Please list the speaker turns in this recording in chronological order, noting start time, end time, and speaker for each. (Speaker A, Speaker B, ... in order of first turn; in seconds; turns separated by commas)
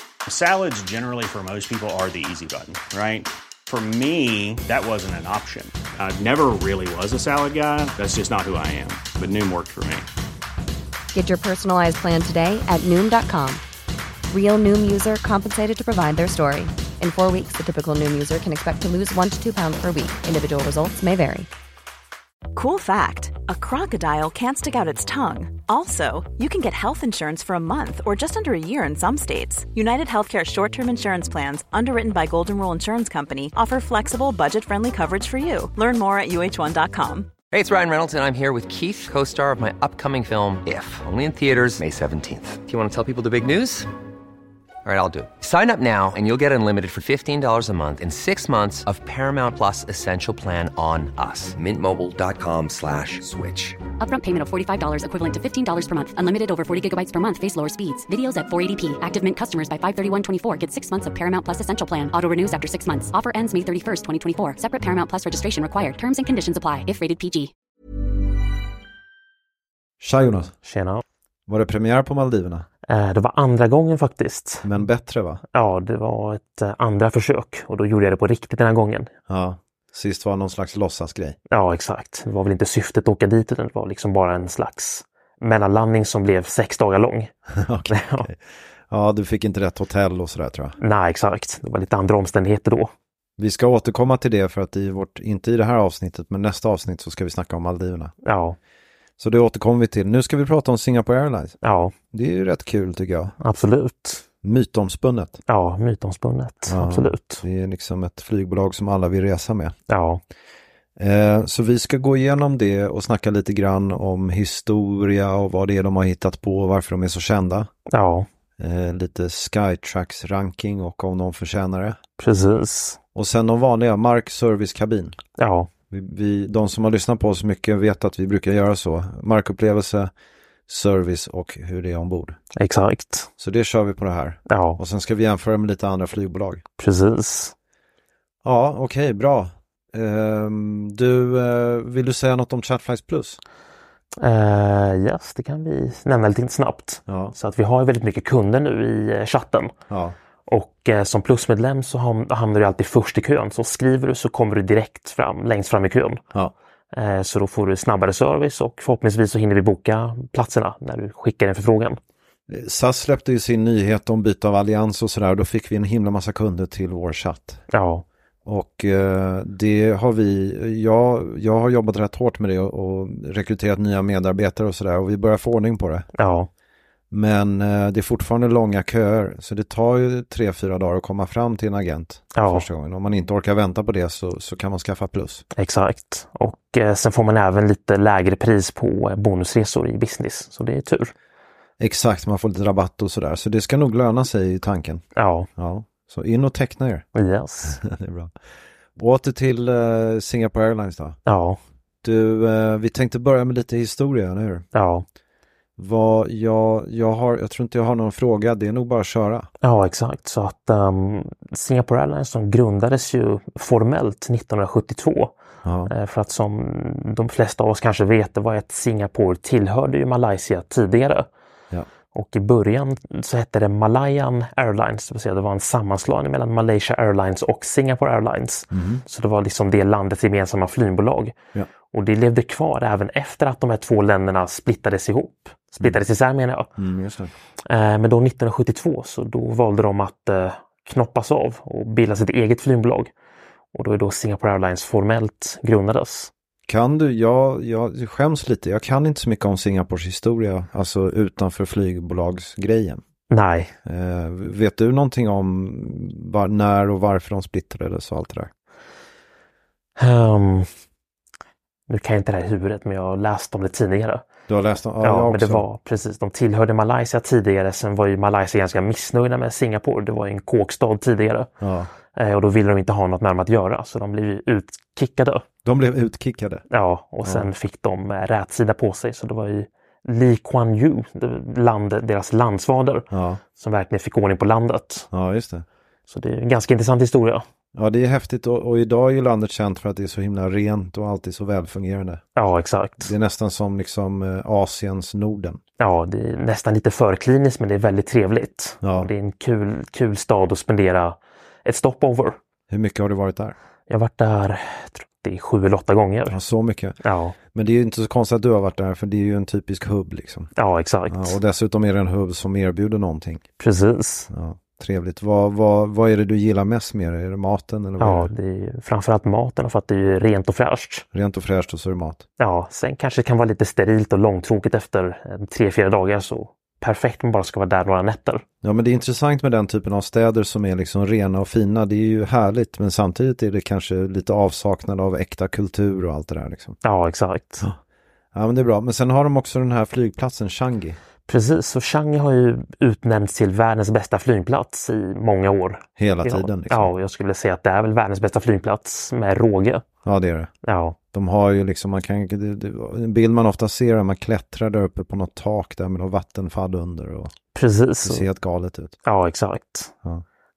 Speaker A: 0.3-10.1, Speaker B: 11.1-13.6, Speaker B: 14.3-21.5, Speaker C: 22.5-37.3, Speaker D: 37.5-43.9, Speaker D: 44.8-53.8, Speaker E: 54.0-67.5, Speaker F: 70.0-70.5, Speaker G: 70.6-71.0, Speaker F: 71.5-72.7, Speaker G: 72.9-74.7, Speaker F: 74.6-75.4, Speaker G: 75.5-79.1, Speaker F: 79.3-81.4, Speaker G: 81.5-87.3, Speaker F: 87.5-90.8, Speaker G: 87.9-88.3, Speaker G: 90.8-92.9, Speaker F: 93.4-98.1, Speaker G: 98.2-98.6, Speaker F: 99.2-101.6, Speaker G: 101.6-101.9, Speaker F: 102.1-103.3, Speaker G: 103.4-104.2, Speaker F: 104.4-105.4, Speaker G: 105.5-107.4, Speaker F: 106.7-109.7, Speaker G: 109.9-110.2, Speaker F: 111.0-117.7, Speaker G: 117.9-118.3, Speaker F: 118.6-122.0, Speaker G: 122.2-123.0, Speaker F: 123.1-125.2, Speaker G: 125.4-125.7, Speaker F: 125.9-130.1, Speaker F: 130.7-132.4, Speaker G: 132.6-133.3, Speaker F: 133.4-136.6, Speaker G: 134.5-134.8, Speaker G: 136.8-137.5, Speaker F: 138.4-143.4, Speaker G: 144.2-149.7, Speaker F: 147.1-147.3, Speaker F: 149.9-150.2, Speaker G: 150.4-156.2, Speaker G: 156.9-162.0, Speaker F: 162.5-167.6, Speaker G: 167.7-168.0, Speaker F: 168.4-176.1, Speaker G: 176.2-176.5, Speaker F: 177.1-185.4, Speaker G: 182.3-182.6, Speaker G: 185.5-191.1, Speaker F: 191.8-195.0, Speaker G: 195.2-195.5, Speaker F: 195.6-197.1, Speaker G: 197.1-197.8, Speaker F: 197.7-198.3, Speaker F: 198.9-201.2, Speaker G: 201.2-201.6, Speaker F: 202.0-204.6, Speaker G: 204.7-205.0, Speaker F: 205.8-209.5, Speaker G: 209.6-215.3, Speaker F: 215.6-215.9, Speaker G: 215.9-221.3, Speaker G: 222.1-231.3, Speaker F: 228.7-229.0, Speaker G: 231.9-236.7, Speaker F: 236.8-237.3, Speaker G: 237.7-243.1, Speaker G: 243.7-246.3, Speaker F: 246.7-253.0, Speaker G: 253.3-253.7, Speaker F: 253.8-258.5, Speaker G: 260.0-260.7, Speaker G: 261.9-264.2, Speaker F: 264.5-265.6, Speaker G: 265.0-271.5, Speaker F: 271.6-271.9, Speaker G: 272.1-275.4, Speaker F: 275.6-276.6, Speaker G: 276.7-285.1, Speaker F: 283.1-283.4, Speaker F: 285.1-285.6, Speaker G: 286.1-287.4, Speaker F: 287.7-292.2, Speaker G: 292.4-293.1, Speaker F: 293.0-295.6, Speaker G: 295.8-302.4, Speaker F: 298.8-299.1, Speaker F: 302.7-303.5, Speaker G: 303.9-306.4, Speaker F: 306.3-307.0, Speaker G: 307.0-307.4, Speaker F: 307.5-310.5, Speaker G: 310.6-311.4, Speaker F: 311.1-313.4, Speaker G: 313.6-314.3, Speaker F: 314.3-318.3, Speaker G: 318.0-321.0, Speaker F: 321.1-322.2, Speaker G: 322.4-328.4, Speaker F: 328.6-336.8, Speaker G: 336.8-337.7, Speaker F: 338.3-341.0, Speaker G: 341.3-349.9, Speaker F: 346.0-346.9, Speaker F: 350.0-350.5, Speaker G: 350.6-351.0, Speaker F: 351.1-357.3, Speaker G: 357.5-358.2, Speaker F: 358.0-358.9, Speaker G: 359.0-359.9